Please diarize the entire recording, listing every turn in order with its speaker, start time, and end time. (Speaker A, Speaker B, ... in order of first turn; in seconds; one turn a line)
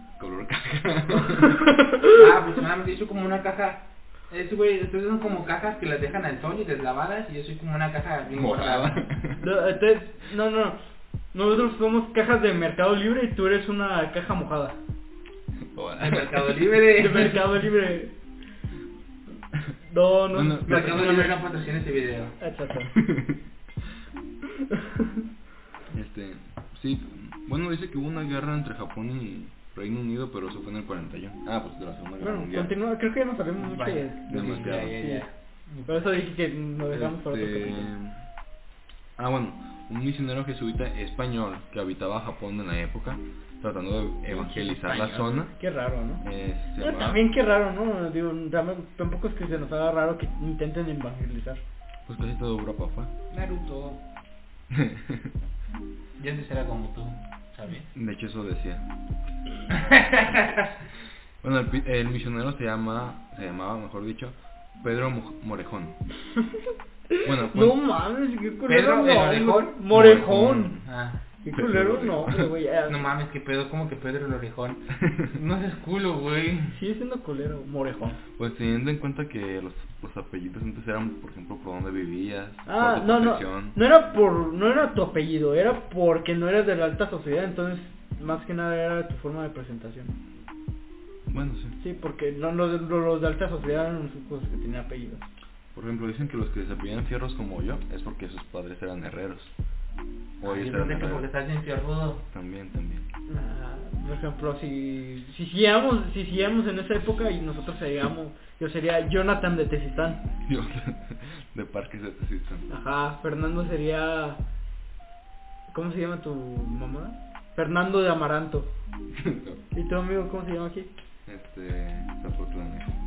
Speaker A: 0.2-1.6
Speaker B: 1.4-2.2
Speaker C: 1.9-9.1
Speaker A: 8.3-9.4
Speaker B: 9.4-10.8
Speaker B: 11.3-14.8
Speaker A: 15.7-16.6
Speaker C: 16.0-17.5
Speaker B: 16.9-18.1
Speaker B: 19.8-21.3
Speaker A: 20.3-21.2
Speaker C: 20.6-22.4
Speaker B: 22.4-23.0
Speaker A: 22.9-23.4
Speaker B: 24.7-25.2
Speaker A: 25.9-32.7
Speaker B: 32.2-35.3
Speaker C: 33.6-35.9
Speaker A: 34.3-35.0
Speaker B: 35.8-37.9
Speaker A: 36.9-38.2
Speaker A: 39.2-45.5
Speaker B: 44.3-46.2
Speaker A: 46.2-47.2
Speaker B: 46.8-51.6
Speaker A: 52.0-53.1
Speaker C: 53.3-54.0
Speaker A: 54.7-55.3
Speaker C: 56.2-57.9
Speaker A: 57.9-58.9
Speaker C: 59.7-60.7
Speaker A: 61.4-66.0
Speaker B: 67.1-70.7
Speaker A: 67.2-67.8
Speaker C: 68.7-71.2
Speaker A: 69.9-70.8
Speaker B: 71.4-73.0
Speaker A: 71.5-72.5
Speaker C: 72.9-76.8
Speaker B: 76.7-78.2
Speaker A: 78.3-83.8
Speaker B: 82.7-90.2
Speaker A: 91.2-91.8
Speaker B: 91.8-95.2
Speaker A: 95.7-99.5
Speaker A: 100.4-101.2
Speaker C: 100.4-102.2
Speaker A: 102.3-103.1
Speaker B: 103.3-110.2
Speaker A: 110.4-112.7
Speaker B: 112.7-114.4
Speaker B: 115.7-118.7
Speaker A: 119.1-119.6
Speaker B: 119.7-120.9
Speaker A: 121.2-122.9